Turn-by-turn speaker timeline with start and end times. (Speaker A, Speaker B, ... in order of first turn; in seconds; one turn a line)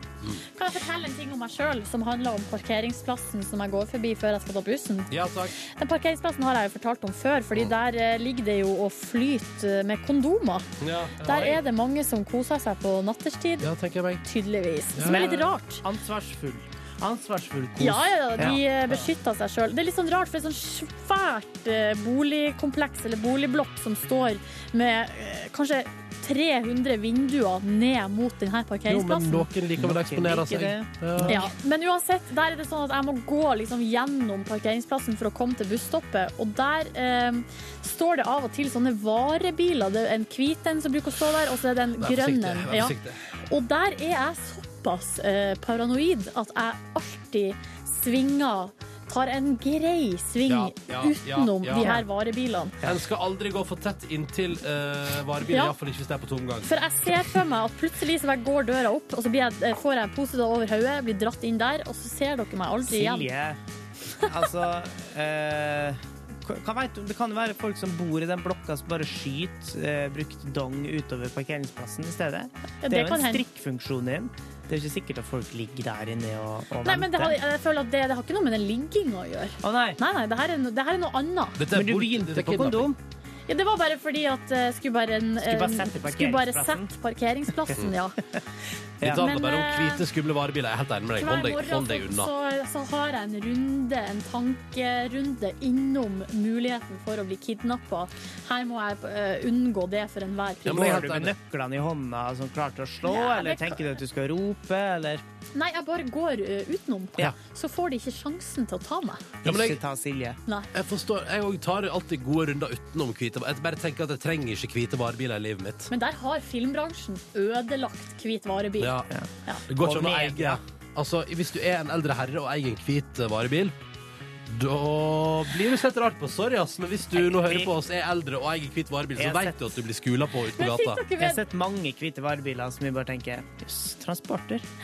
Speaker A: 0.6-10.7
Speaker B: 5.1-5.5
Speaker B: 10.8-11.6
Speaker A: 11.2-13.7
Speaker B: 13.6-14.2
Speaker A: 14.2-15.8
Speaker B: 14.9-15.3
Speaker C: 15.0-19.0
Speaker A: 17.8-29.5
Speaker B: 28.9-31.4
Speaker C: 29.8-31.4
Speaker A: 31.2-42.9
Speaker B: 42.0-43.2
Speaker A: 43.5-52.8
Speaker B: 50.5-52.0
Speaker C: 51.7-52.0
Speaker B: 52.8-56.7
Speaker A: 55.5-55.7
Speaker A: 56.6-63.3
Speaker C: 62.8-63.6
Speaker C: 64.2-77.4
Speaker A: 72.8-73.4
Speaker A: 76.8-81.6
Speaker C: 79.6-80.0
Speaker B: 81.6-82.9
Speaker C: 81.7-83.0
Speaker A: 83.5-88.2
Speaker C: 85.4-86.9
Speaker B: 89.0-92.3
Speaker A: 89.2-90.0
Speaker A: 91.2-100.9
Speaker B: 100.7-101.3
Speaker C: 100.7-105.2
Speaker A: 103.0-103.8
Speaker A: 105.5-109.2
Speaker C: 109.4-110.4
Speaker B: 109.4-109.8
Speaker B: 110.7-115.9
Speaker A: 115.9-119.6
Speaker B: 118.8-119.1
Speaker B: 119.7-123.8
Speaker C: 119.8-120.6
Speaker B: 124.5-131.0
Speaker C: 127.2-127.7
Speaker C: 129.2-129.6
Speaker A: 130.6-131.4
Speaker C: 131.2-134.7